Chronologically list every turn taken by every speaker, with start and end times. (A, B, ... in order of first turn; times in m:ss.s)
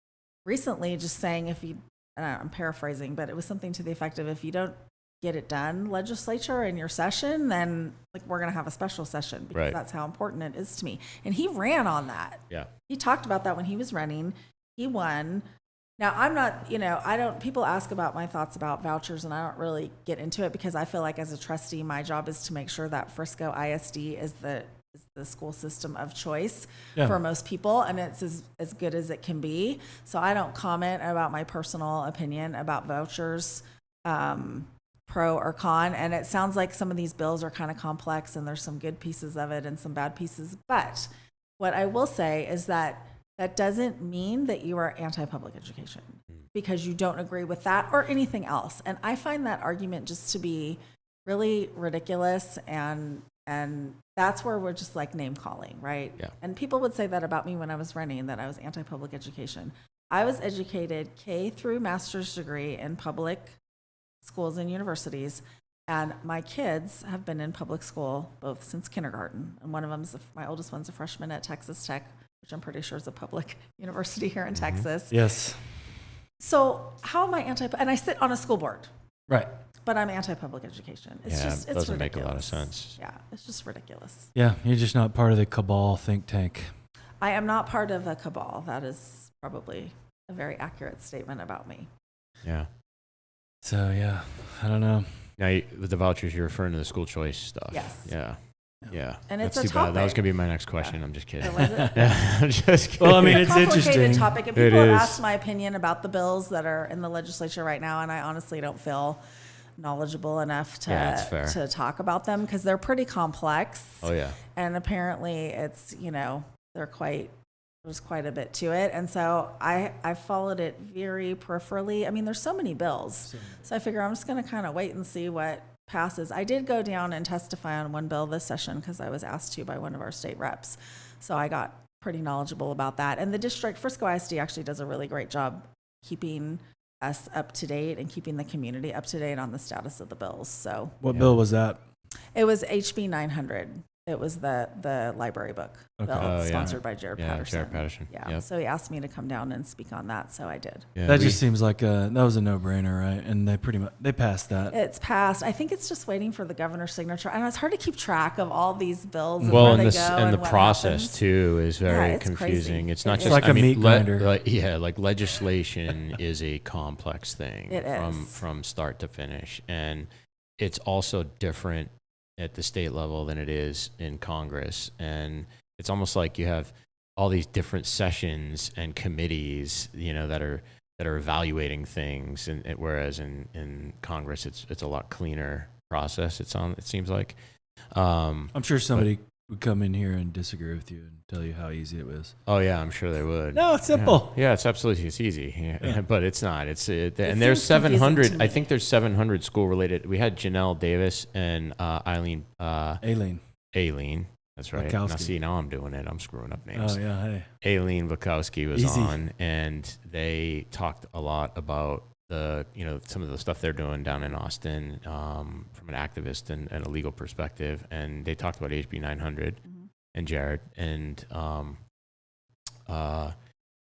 0:00.4-0:15.4 A
0:16.0-1:03.5 A
1:04.2-1:15.2 A
1:14.5-1:14.8 B
1:15.1-1:15.7 C
1:16.4-1:18.9 A
1:19.8-1:24.3 A
1:21.2-1:23.0 B
1:24.3-1:26.7 C
1:27.2-1:31.9 A
1:33.6-1:35.3 C
1:35.4-1:43.7 B
1:37.7-1:38.1 A
1:39.3-1:42.1 A
1:43.0-1:44.4 C
1:43.3-1:49.2 A
1:44.5-1:45.2 B
1:49.8-2:21.0 A
1:50.9-1:51.6 B
1:54.0-1:54.4 B
2:03.2-2:03.7 C
2:21.0-2:21.8 C
2:21.0-2:21.4 B
2:22.3-2:31.3 A
2:26.0-2:26.4 C
2:26.2-2:28.4 B
2:30.9-2:31.4 B
2:31.0-2:34.7 C
2:34.7-2:41.2 A
2:39.4-2:39.9 C
2:39.5-3:07.4 B
2:41.8-2:43.6 A
2:43.2-2:44.3 C
2:47.7-2:48.4 A
3:07.9-3:09.1 B
3:08.5-3:12.3 C
3:12.4-3:23.0 B
3:13.5-3:14.4 C
3:17.2-3:18.6 A
3:23.0-3:23.4 C
3:23.7-3:27.1 B
3:24.7-3:25.3 C
3:26.7-3:27.5 C
3:27.6-3:39.6 B
3:28.7-3:29.2 C
3:39.6-3:39.9 A
3:40.1-3:41.8 B
3:42.9-3:43.3 B